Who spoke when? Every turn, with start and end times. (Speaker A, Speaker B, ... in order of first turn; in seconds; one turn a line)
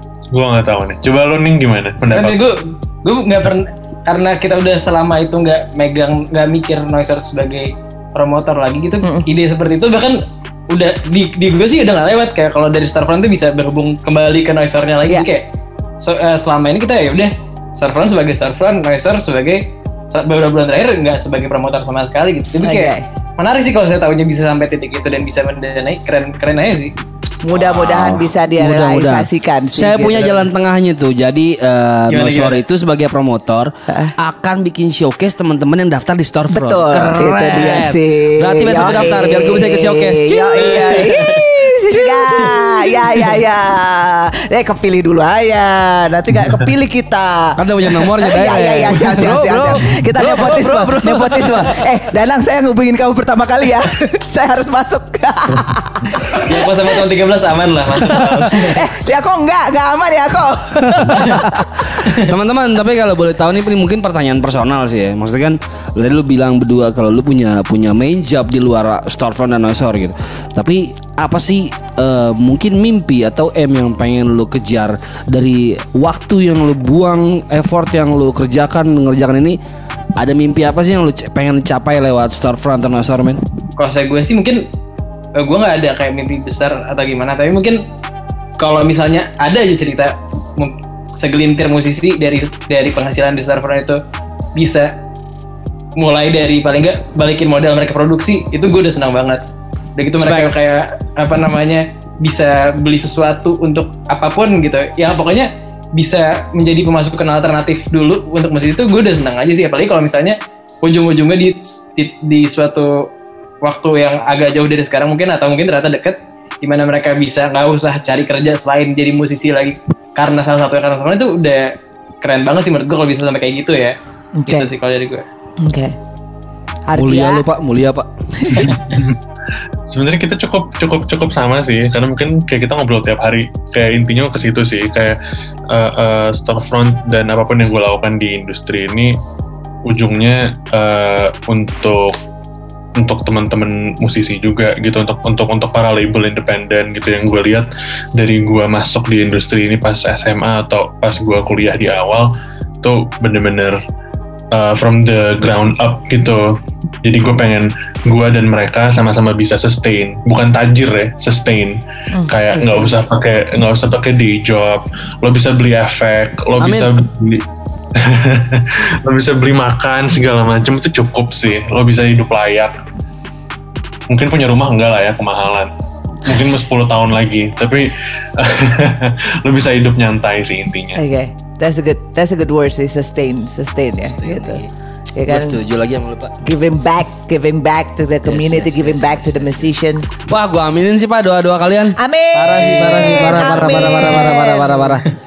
Speaker A: 0.3-2.4
Speaker B: 2.1-10.2
Speaker B: 10.7-15.4
Speaker B: 16.0-26.9
Speaker C: 22.6-23.1
Speaker C: 27.4-30.5
Speaker D: 27.5-41.0
Speaker B: 32.1-32.6
Speaker C: 33.9-34.1
Speaker C: 36.5-56.7
Speaker B: 38.7-39.2
Speaker B: 40.5-43.3
Speaker D: 47.6-51.9
Speaker B: 56.2-58.9
Speaker C: 58.5-61.6
Speaker D: 60.8-79.6
Speaker B: 62.1-62.3
Speaker D: 80.2-83.4
Speaker B: 83.8-84.6
Speaker B: 85.4-87.8
Speaker B: 88.6-94.0
Speaker B: 94.5-94.9
Speaker B: 96.0-99.4
Speaker B: 100.0-113.1
Speaker D: 100.2-100.5
Speaker B: 113.6-125.2
Speaker C: 124.3-124.7
Speaker C: 125.6-125.9
Speaker C: 126.9-127.4
Speaker D: 127.0-128.1
Speaker C: 128.4-128.7
Speaker A: 128.6-129.2
Speaker A: 129.9-135.2
Speaker A: 135.7-139.2
Speaker A: 139.9-142.2
Speaker A: 143.0-152.3
Speaker A: 152.8-153.8
Speaker A: 154.5-161.8
Speaker C: 162.1-163.0
Speaker A: 162.3-167.4
Speaker D: 166.6-166.9
Speaker A: 167.9-172.8
Speaker A: 174.1-175.7
Speaker A: 176.2-181.0
Speaker C: 180.9-184.6
Speaker D: 184.1-184.7
Speaker C: 185.1-185.6
Speaker D: 185.3-186.4
Speaker C: 186.4-190.1
Speaker D: 188.2-189.7
Speaker D: 190.2-195.1
Speaker C: 192.0-195.0